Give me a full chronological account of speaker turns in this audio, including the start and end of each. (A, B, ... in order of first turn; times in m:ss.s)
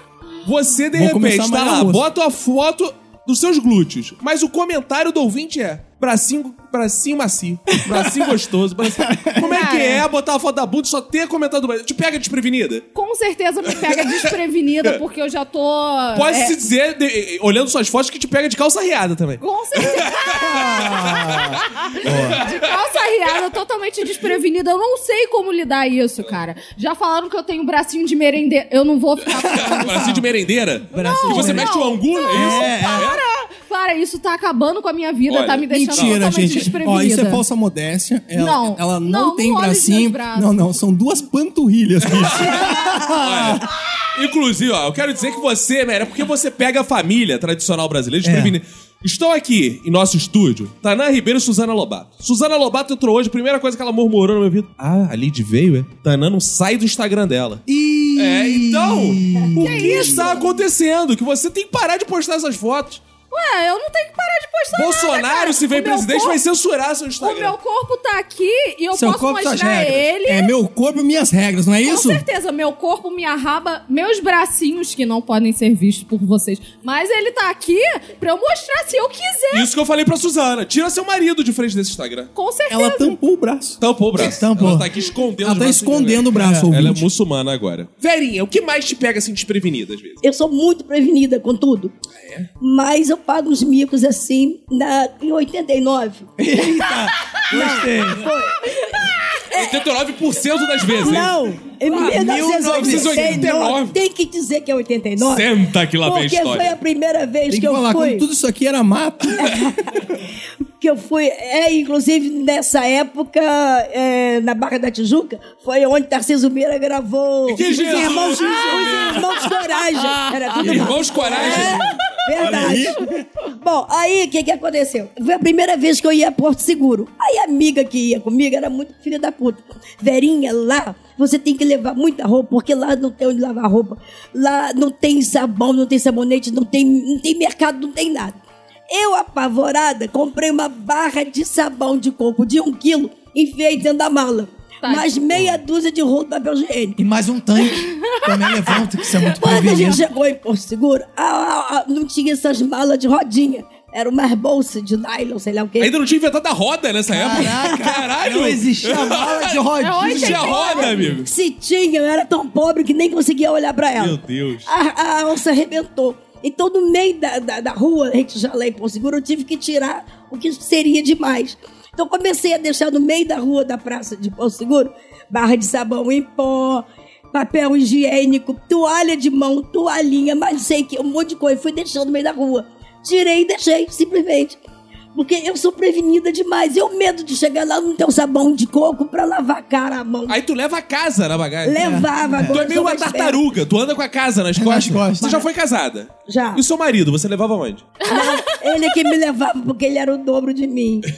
0:00.4-0:12.8 A
0:00.9-0:02.0 B
0:09.4-0:10.0 C
0:12.9-0:16.5 C
0:13.8-0:14.1 A
0:16.1-0:22.6 A
0:19.4-0:20.6 C
0:20.3-0:22.4 D
0:22.0-0:30.2 C
0:29.5-0:33.2 A
0:30.9-0:31.7 D
0:30.9-0:37.4 C
0:32.3-0:33.1 D
0:35.3-0:36.2 A
0:35.7-0:42.7 B
0:38.3-0:40.6 C
0:42.1-0:42.6 A
0:42.5-0:43.6 D
0:43.2-0:57.6 A
0:48.2-0:48.6 D
0:57.7-1:00.4 D
0:58.2-1:03.0 A
0:59.6-1:00.5 C
1:03.3-1:06.4 C
1:04.7-1:07.5 A
1:07.2-1:10.5 C
1:09.0-1:09.3 B
1:09.1-1:10.1 D
1:10.2-1:12.2 B
1:11.8-1:19.7 C
1:19.5-1:22.3 A
1:22.3-1:23.2 C
1:22.7-1:23.8 B
1:23.8-1:30.2 A
1:24.2-1:24.9 D
1:25.4-1:27.0 B
1:30.2-1:31.9 E
1:32.6-1:36.3 E
1:36.4-1:38.3 D
1:37.5-1:39.8 E
1:39.5-1:41.4 A
1:40.9-1:45.5 E
1:41.9-1:44.0 A
1:41.9-1:43.7 D
1:45.2-1:46.7 A
1:46.0-1:48.2 E
1:47.5-1:49.6 B
1:49.4-1:49.8 E
1:50.8-2:18.4 E
1:57.5-1:59.5 A
2:00.3-2:02.1 A
2:00.6-2:01.8 B
2:02.4-2:03.2 B
2:18.9-2:27.0 E
2:24.8-2:25.2 C
2:27.0-2:30.0 D
2:29.3-2:35.9 E
2:35.8-2:41.3 A
2:37.1-2:40.5 D
2:37.3-2:37.7 E
2:39.8-2:41.1 C
2:40.7-3:04.6 E
2:44.0-2:44.7 A
3:05.1-3:10.4 E
3:10.3-3:11.9 A
3:11.6-3:13.4 E
3:11.8-3:12.6 D
3:12.5-3:17.9 A
3:14.5-3:15.3 D
3:15.2-3:15.5 E
3:16.3-3:16.6 E
3:18.0-3:18.5 C
3:18.0-3:21.1 E